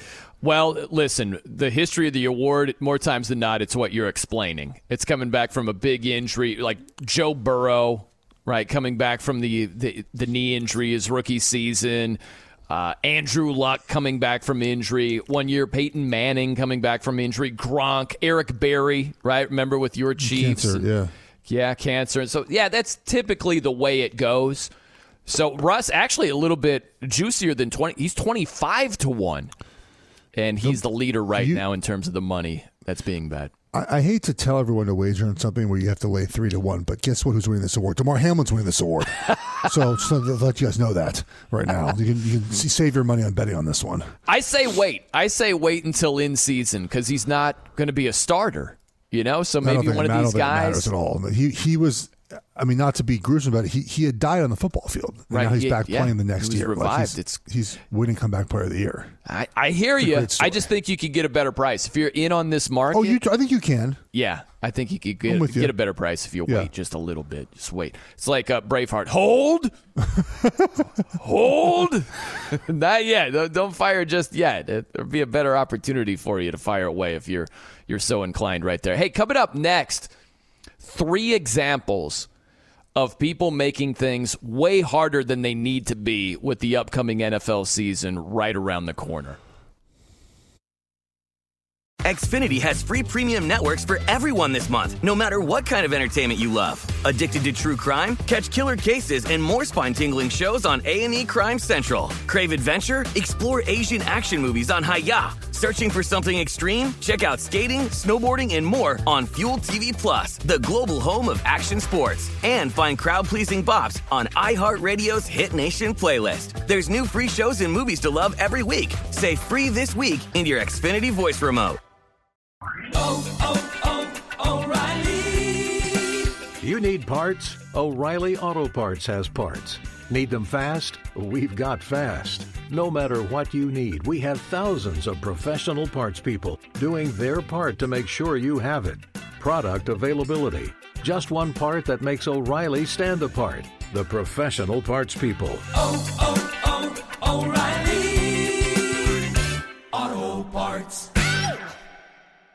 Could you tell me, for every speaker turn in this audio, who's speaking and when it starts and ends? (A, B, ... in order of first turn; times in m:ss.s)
0:00.4-0:20.9 A
0:20.2-0:21.1 B
0:21.4-0:24.7 A
0:25.2-0:29.5 A
0:30.3-0:33.5 A
0:31.3-0:31.6 B
0:33.7-0:44.1 B
0:44.3-0:50.9 A
0:49.6-0:59.1 B
0:55.3-0:57.4 A
0:59.2-1:03.2 A
1:00.0-1:00.7 B
1:02.9-1:04.0 B
1:04.1-1:09.7 A
1:05.2-1:05.7 B
1:10.2-1:10.8 B
1:11.1-1:20.1 A
1:20.8-1:22.3 A
1:22.9-1:29.4 A
1:32.0-2:01.8 C
2:03.0-2:05.8 A
2:06.6-2:25.7 D
2:25.9-2:28.8 A
2:29.9-2:31.1 A